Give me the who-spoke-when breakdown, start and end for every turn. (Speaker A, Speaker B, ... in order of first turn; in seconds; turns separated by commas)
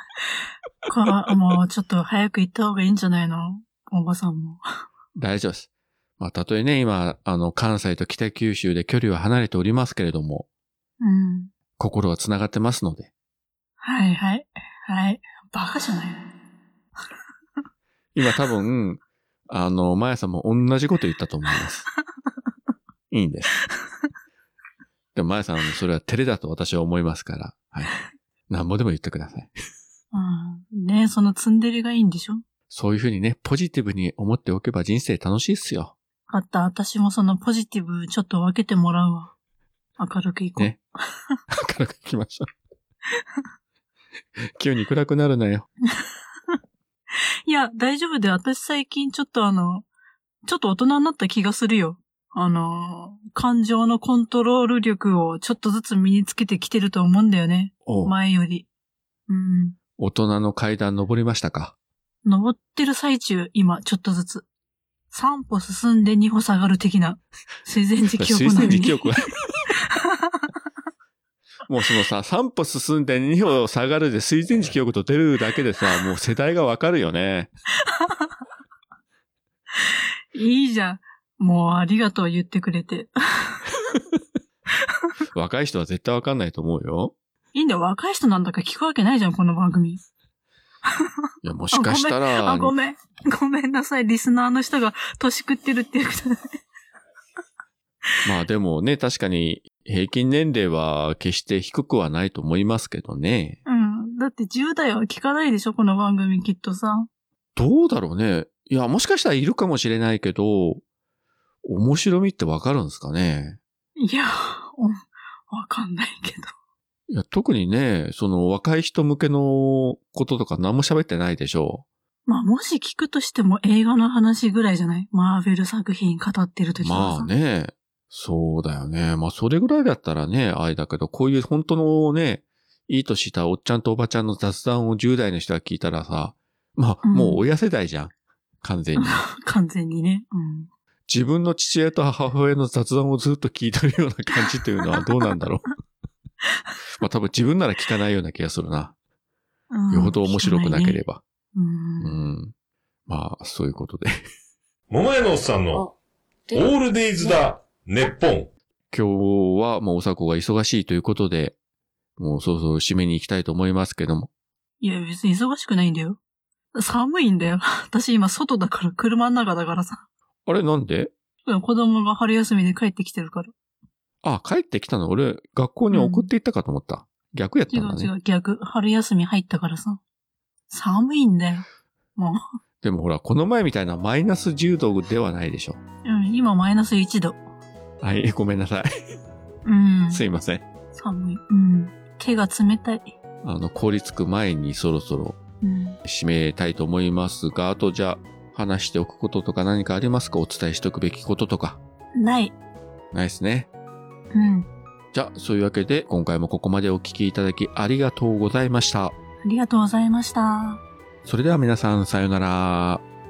Speaker A: 0.9-4.6, Speaker B: 5.2-10.5, Speaker A: 11.0-11.5, Speaker B: 11.8-13.1, Speaker A: 13.8-16.2, Speaker B: 18.1-21.9, Speaker B: 23.1-23.6, Speaker B: 25.1-27.9, Speaker B: 28.5-29.5, Speaker A: 30.1-32.4, Speaker B: 32.7-35.9, Speaker A: 36.3-39.3, Speaker A: 40.0-41.4, Speaker B: 41.5-42.5, Speaker B: 44.5-45.7, Speaker A: 47.5-49.9, Speaker A: 50.5-58.7, Speaker B: 57.9-58.1, Speaker A: 59.3-59.8, Speaker B: 60.0-61.8, Speaker A: 62.2-64.5, Speaker A: 65.1-69.1, Speaker B: 68.2-69.3, Speaker A: 69.9-70.5, Speaker B: 71.7-77.5, Speaker A: 78.0-78.2, Speaker A: 80.3-83.7, Speaker B: 85.3-87.2, Speaker A: 87.5-90.0, Speaker B: 91.4-92.7, Speaker A: 91.7-96.5, Speaker B: 98.2-103.6, Speaker A: 103.7-107.1, Speaker B: 107.6-110.8, Speaker B: 111.6-113.6, Speaker A: 114.0-116.5, Speaker B: 117.1-121.8, Speaker A: 122.3-127.3, Speaker B: 126.8-139.2, Speaker A: 137.0-137.4, Speaker A: 139.0-140.7, Speaker B: 141.1-145.7, Speaker B: 147.0-148.9, Speaker A: 149.7-151.0, Speaker B: 149.9-151.2, Speaker A: 151.6-152.2, Speaker B: 152.0-152.5, Speaker B: 153.1-154.2, Speaker C: 154.9-155.9, Speaker C: 156.5-158.5, Speaker B: 158.9-161.6, Speaker B: 162.2-164.3, Speaker A: 164.8-166.2, Speaker A: 166.8-170.1, Speaker B: 170.5-171.1, Speaker A: 171.5-173.5, Speaker B: 174.2-178.1, Speaker A: 175.9-176.3, Speaker A: 177.7-180.0, Speaker A: 180.7-181.7, Speaker A: 182.2-182.4, Speaker B: 182.8-185.8, Speaker A: 186.1-187.4, Speaker B: 188.0-188.9, Speaker A: 189.7-190.2, Speaker B: 190.1-190.7, Speaker A: 190.9-193.1, Speaker B: 193.4-195.4, Speaker A: 195.6-196.0, Speaker B: 196.1-201.8, Speaker A: 202.2-202.6, Speaker B: 203.1-203.7, Speaker A: 204.3-204.7, Speaker B: 205.1-209.2, Speaker A: 209.4-210.8, Speaker B: 211.2-213.0